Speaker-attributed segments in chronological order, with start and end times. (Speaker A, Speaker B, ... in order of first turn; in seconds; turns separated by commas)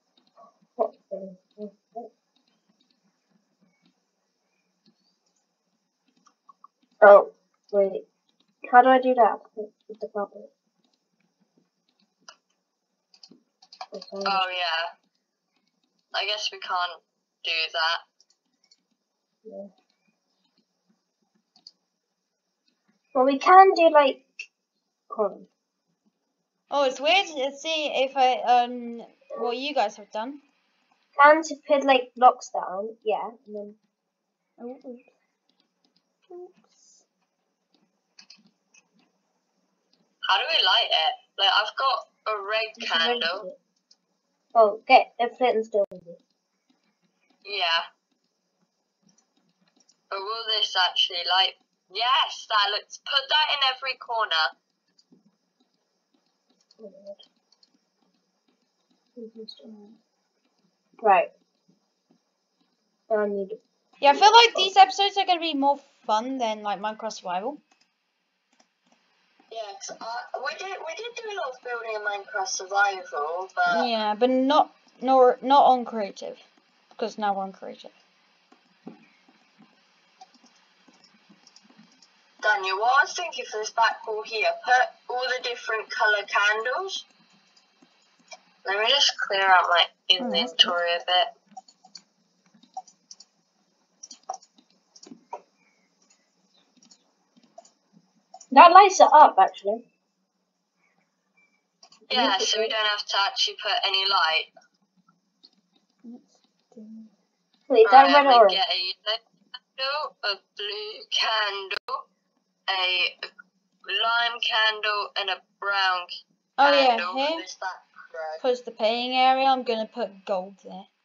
Speaker A: 0.8-2.1, Speaker A: 7.0-8.0, Speaker A: 8.7-10.5, Speaker A: 13.9-14.4, Speaker B: 14.2-14.9, Speaker B: 16.1-18.0, Speaker A: 19.4-19.7, Speaker A: 23.1-24.3, Speaker A: 25.1-25.5, Speaker C: 26.7-30.4, Speaker A: 31.2-33.8, Speaker C: 34.6-35.1, Speaker C: 36.3-37.0, Speaker B: 40.3-43.5, Speaker A: 42.8-43.5, Speaker A: 44.5-46.2, Speaker B: 47.4-47.9, Speaker B: 50.1-54.5, Speaker A: 56.8-57.2, Speaker A: 59.1-59.7, Speaker C: 59.6-60.0, Speaker A: 61.0-61.3, Speaker A: 63.1-64.7, Speaker C: 64.0-67.6, Speaker B: 69.5-73.9, Speaker C: 73.7-76.4, Speaker C: 77.0-77.9, Speaker B: 82.4-87.0, Speaker B: 88.6-91.3, Speaker C: 90.2-90.7, Speaker A: 98.5-99.8, Speaker A: 102.1-102.7, Speaker B: 102.1-104.5, Speaker C: 106.0-107.1, Speaker A: 107.7-108.6, Speaker B: 107.8-112.0, Speaker B: 112.7-113.2, Speaker B: 113.8-118.4, Speaker C: 116.6-117.4, Speaker C: 118.4-120.9